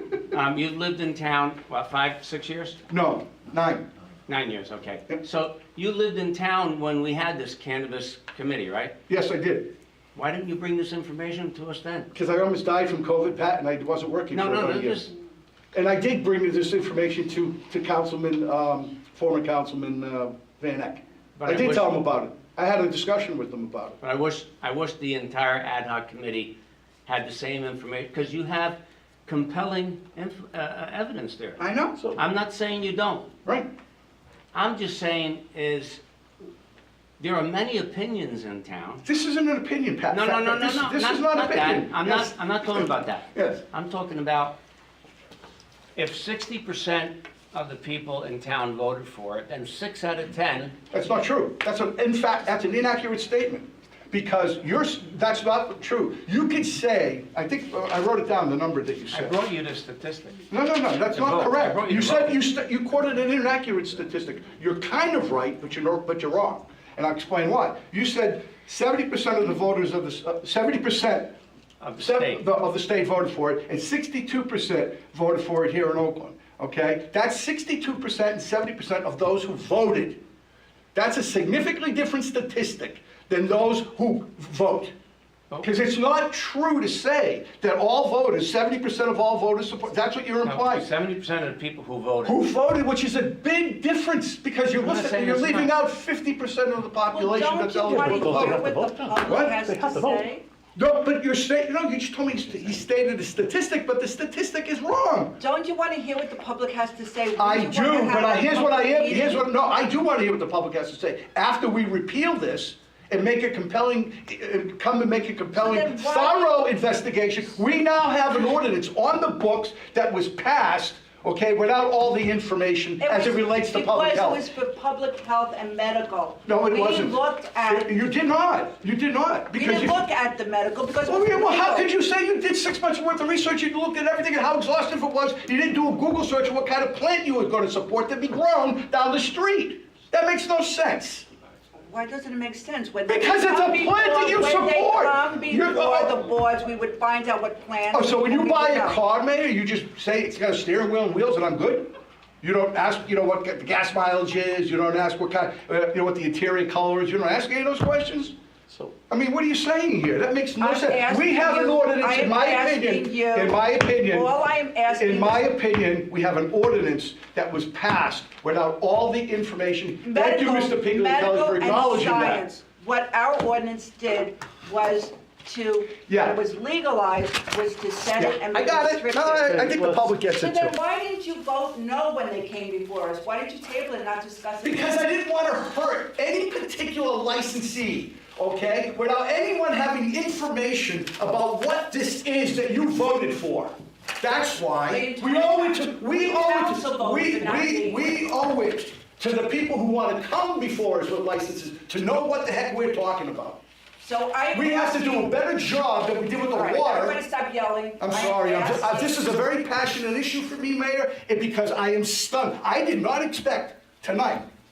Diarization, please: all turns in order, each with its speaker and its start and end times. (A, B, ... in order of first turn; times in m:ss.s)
0:00.3-0:02.8 A
0:02.9-0:03.9 B
0:04.3-0:09.0 A
0:09.1-0:09.7 B
0:10.2-0:12.1 A
0:12.1-0:15.0 B
0:14.3-0:15.1 A
0:15.7-0:24.0 B
0:21.4-0:22.0 A
0:24.0-0:26.6 A
0:27.1-0:31.6 A
0:31.6-0:32.0 B
0:32.1-0:33.3 A
0:34.5-0:36.0 A
0:37.2-0:39.0 A
0:39.0-0:43.6 B
0:40.1-0:44.6 A
0:46.0-0:50.8 A
0:50.9-0:59.4 B
0:59.1-1:00.4 A
1:00.5-1:11.4 B
1:01.1-1:02.4 A
1:11.8-1:12.4 A
1:12.0-1:20.2 B
1:21.0-1:24.9 B
1:25.6-1:30.9 B
1:30.4-1:32.4 A
1:32.2-1:38.7 B
1:34.8-1:35.7 A
1:37.1-1:40.4 C
1:37.8-1:40.3 D
1:38.3-1:38.6 A
1:39.2-1:39.7 B
1:40.8-1:45.4 B
1:45.4-1:49.5 C
1:47.4-2:04.5 B
1:55.6-1:56.6 C
2:03.0-2:08.0 C
2:06.4-2:10.0 B
2:09.5-2:11.9 C
2:11.1-2:21.3 B
2:21.8-2:29.0 C
2:23.1-2:26.3 B
2:27.9-2:38.4 B
2:38.7-2:38.9 D
2:39.1-2:52.5 B
2:40.6-2:43.5 C
2:44.2-2:45.5 C
2:50.0-2:59.6 C
2:56.0-2:56.4 B
2:58.2-3:00.8 B
2:59.5-3:00.2 D
3:00.4-3:05.0 C
3:04.6-3:23.6 B
3:14.9-3:18.0 C
3:24.0-3:25.3 C
3:24.5-3:27.2 B
3:26.5-3:29.2 C
3:28.0-3:34.5 B